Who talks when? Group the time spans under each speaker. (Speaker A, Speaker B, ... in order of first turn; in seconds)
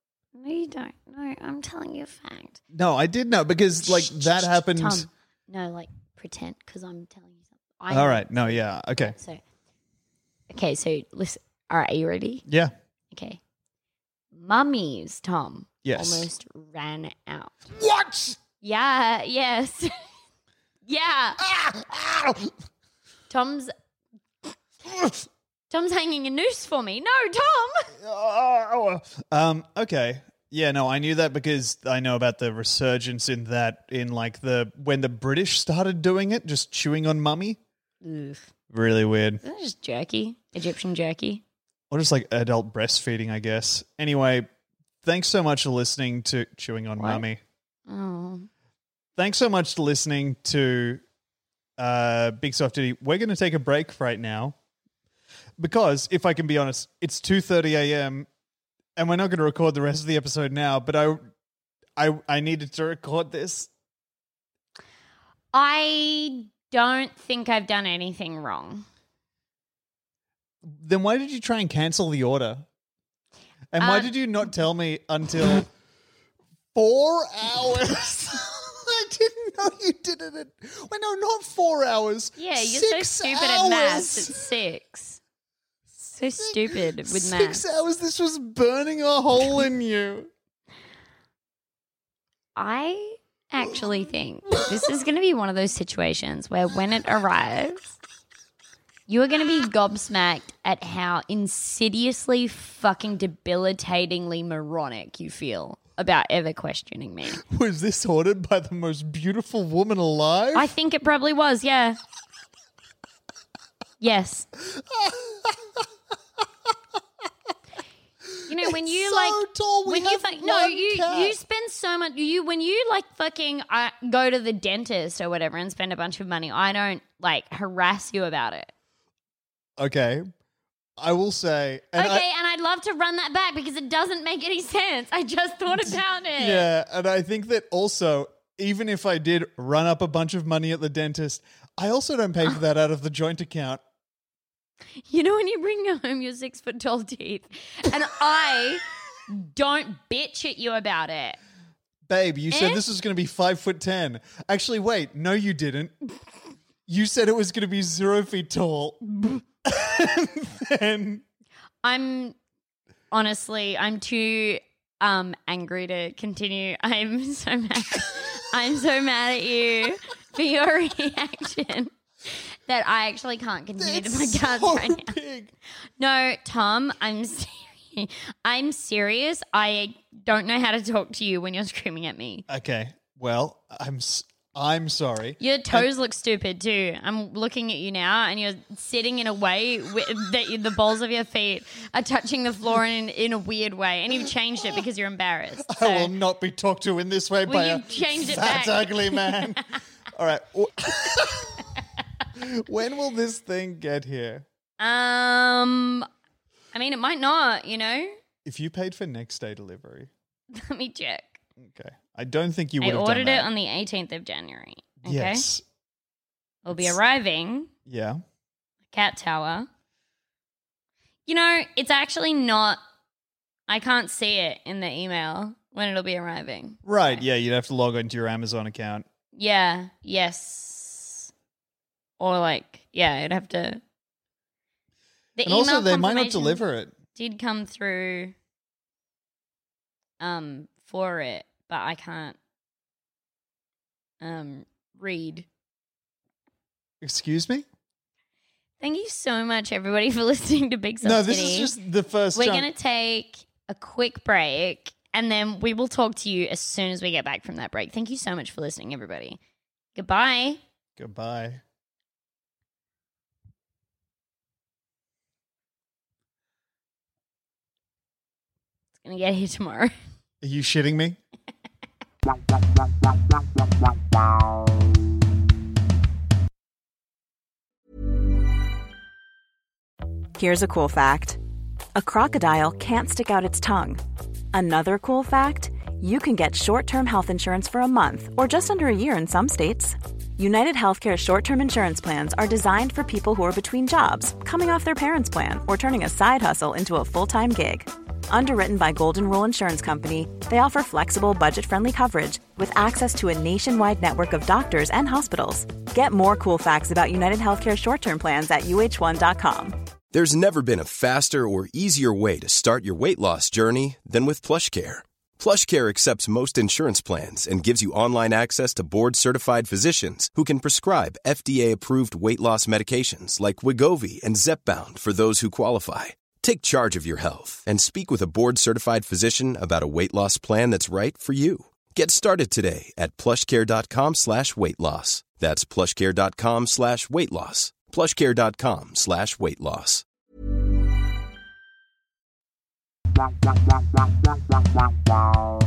Speaker A: 0.3-2.6, 3.8-9.4, 10.5-12.4, 13.1-13.4, 14.3-17.5, 18.6-19.9, 20.9-21.4, 23.3-23.7, 25.7-27.9, 38.0-38.5, 39.4-41.4, 47.0-47.2, 47.9-48.5, 65.5-68.8, 73.8-74.1, 82.4-85.2, 86.0-87.6, 92.5-97.9, 99.1-107.4, 110.5-112.0, 114.0-114.5, 118.5-128.7, 131.9-136.7, 145.0-151.4, 152.5-152.8, 161.8-162.3, 163.1-175.2, 176.0-182.4, 185.4-196.1, 197.4-199.6, 204.8-206.1, 206.7-208.2, 210.5-211.4, 212.8-215.5, 216.6-217.7, 218.9-219.7, 221.3-222.8, 223.7-227.2, 229.3-231.3, 232.2-233.8, 235.4-236.6, 237.1-238.3, 240.2-242.4, 244.2-245.4, 248.8-251.7, 252.3-259.4, 259.9-260.6, 269.0-269.9
Speaker B: 2.7-5.1, 7.9-9.2, 12.5-12.7, 15.8-16.3, 17.7-18.4, 21.4-22.5, 24.8-25.2, 28.0-37.6, 38.7-39.4, 41.9-44.5, 45.0-47.4, 49.1-51.0, 51.8-54.5, 55.6-58.3, 59.0-61.2, 62.0-63.7, 70.6-72.7, 73.7-75.7, 76.7-84.5, 86.4-90.3, 107.4-110.7, 114.6-115.8, 118.2-121.4, 129.8-130.3, 131.0-132.2, 135.7-143.8, 152.1-155.9, 156.9-161.2, 173.8-175.5, 182.5-185.9, 195.7-201.7, 202.3-204.4, 208.4-210.1, 211.6-213.5, 215.0-215.6, 217.8-218.2, 226.8-229.0, 235.4-236.9, 247.0-247.7, 251.0-252.7, 261.0-261.6, 270.4-271.2
Speaker C: 280.4-281.4, 281.9-284.0, 284.5-309.7
Speaker D: 310.1-340.0